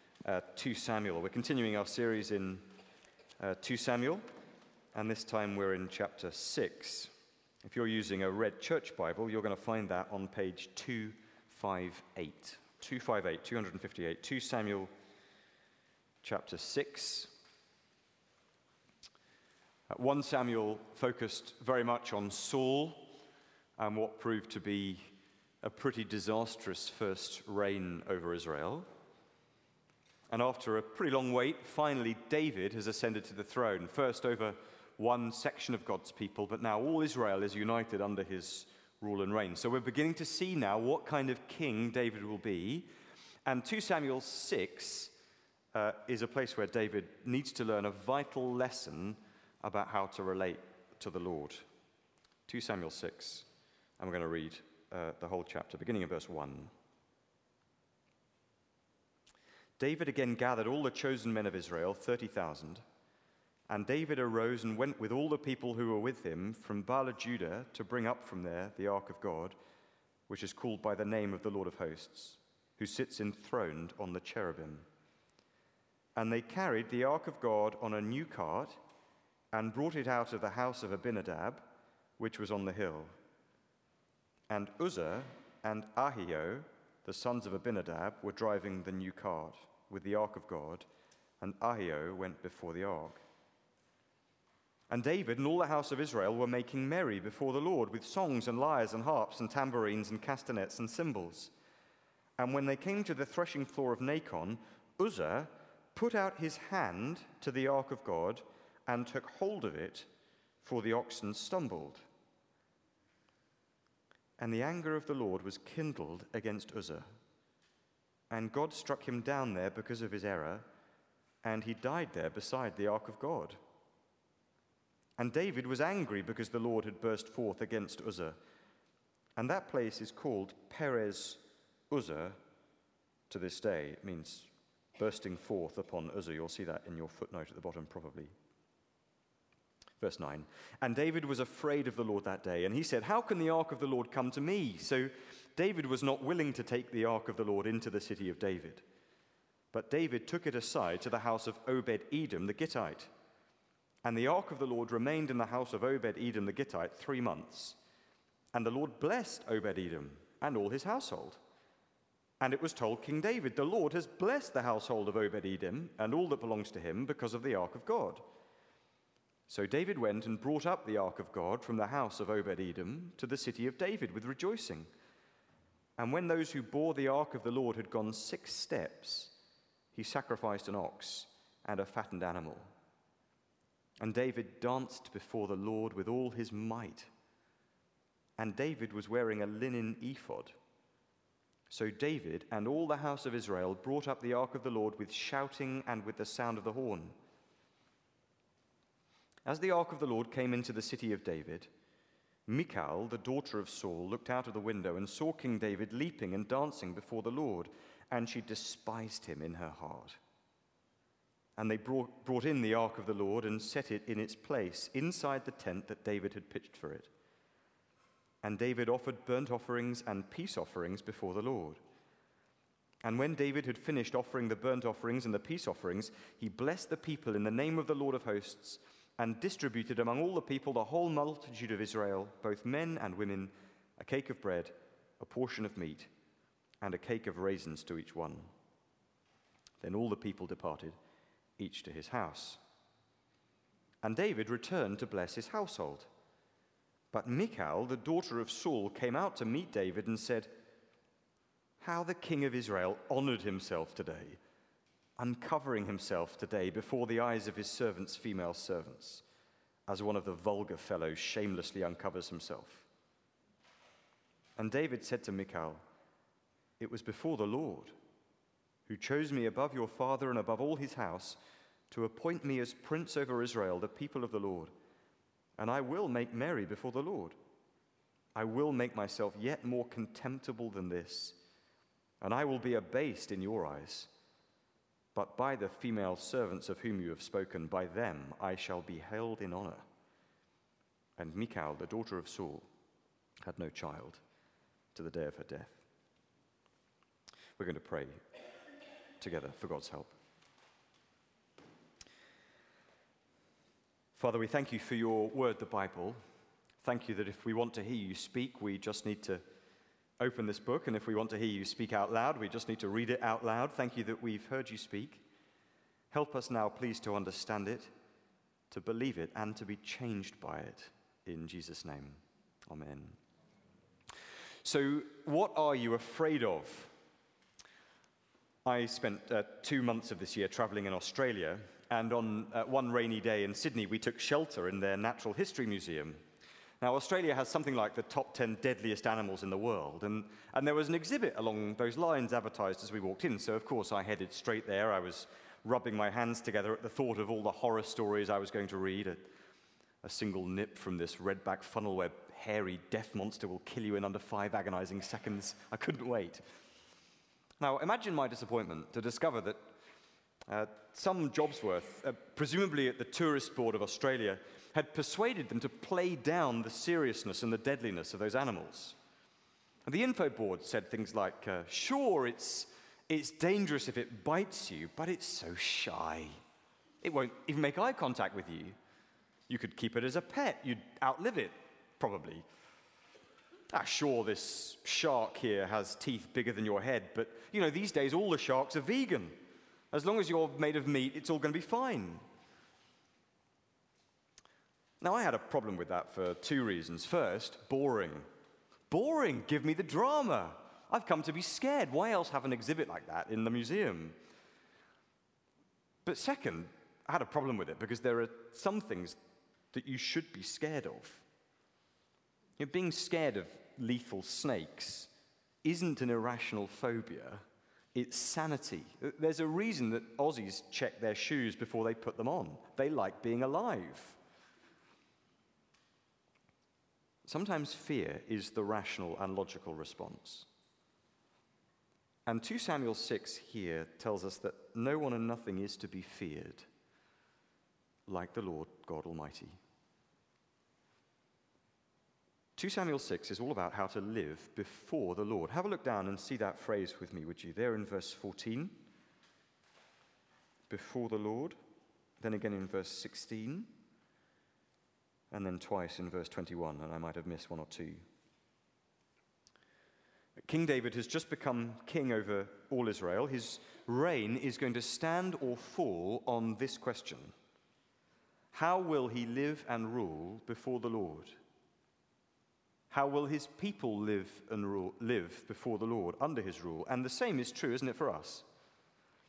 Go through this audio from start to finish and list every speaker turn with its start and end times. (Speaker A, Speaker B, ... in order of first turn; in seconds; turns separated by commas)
Speaker A: 0.2-2.7, Speaker A: 3.4-4.2, Speaker A: 4.9-7.1, Speaker A: 7.6-14.9, Speaker A: 16.2-17.4, Speaker A: 19.9-23.1, Speaker A: 23.8-25.1, Speaker A: 25.6-28.9, Speaker A: 30.3-42.9, Speaker A: 43.5-45.1, Speaker A: 45.7-51.6, Speaker A: 52.5-53.5, Speaker A: 54.0-56.7, Speaker A: 59.8-62.8, Speaker A: 63.7-69.6, Speaker A: 70.3-74.9, Speaker A: 76.2-78.8, Speaker A: 79.5-81.7, Speaker A: 82.2-83.1, Speaker A: 84.5-90.9, Speaker A: 91.4-93.2, Speaker A: 94.9-101.5, Speaker A: 102.4-110.1, Speaker A: 110.6-112.0, Speaker A: 114.4-117.1, Speaker A: 118.3-120.7, Speaker A: 121.4-123.6, Speaker A: 125.2-128.4, Speaker A: 129.4-132.4, Speaker A: 133.3-138.3, Speaker A: 140.0-148.8, Speaker A: 149.7-153.1, Speaker A: 154.0-157.8, Speaker A: 158.5-161.4, Speaker A: 162.4-168.2, Speaker A: 169.5-174.9, Speaker A: 176.0-179.3, Speaker A: 179.9-182.7, Speaker A: 184.0-187.1, Speaker A: 188.4-190.6, Speaker A: 191.7-197.2, Speaker A: 199.5-201.7, Speaker A: 202.5-210.2, Speaker A: 211.6-217.1, Speaker A: 218.4-221.8, Speaker A: 223.0-236.1, Speaker A: 236.8-238.5, Speaker A: 239.8-241.0, Speaker A: 241.6-242.6, Speaker A: 244.0-246.1, Speaker A: 247.1-250.5, Speaker A: 251.8-254.4, Speaker A: 255.2-259.2, Speaker A: 259.9-262.9, Speaker A: 264.6-265.8, Speaker A: 266.8-267.9, Speaker A: 268.9-271.4, Speaker A: 271.9-274.7, Speaker A: 275.6-277.4, Speaker A: 278.4-281.4, Speaker A: 282.2-284.1, Speaker A: 285.1-289.9, Speaker A: 291.2-292.7, Speaker A: 293.4-294.2, Speaker A: 294.9-295.8, Speaker A: 297.6-298.2, Speaker A: 299.2-300.1, Speaker A: 304.2-306.2, Speaker A: 306.8-309.4, Speaker A: 310.2-315.2, Speaker A: 316.1-317.9, Speaker A: 318.7-323.2, Speaker A: 324.6-326.9, Speaker A: 328.6-336.2, Speaker A: 336.8-349.3, Speaker A: 350.0-356.4, Speaker A: 357.6-359.6, Speaker A: 360.5-369.0, Speaker A: 369.9-376.4, Speaker A: 377.0-378.8, Speaker A: 379.5-382.4, Speaker A: 383.7-389.4, Speaker A: 389.9-392.2, Speaker A: 395.0-398.3, Speaker A: 398.9-404.1, Speaker A: 406.1-409.2, Speaker A: 409.7-411.2, Speaker A: 412.6-415.1, Speaker A: 415.6-417.4, Speaker A: 417.9-424.2, Speaker A: 427.2-430.5, Speaker A: 432.3-436.7, Speaker A: 438.1-439.6, Speaker A: 442.6-448.9, Speaker A: 450.7-451.6, Speaker A: 452.2-453.7, Speaker A: 455.3-458.0, Speaker A: 460.4-467.3, Speaker A: 468.5-471.4, Speaker A: 472.9-478.5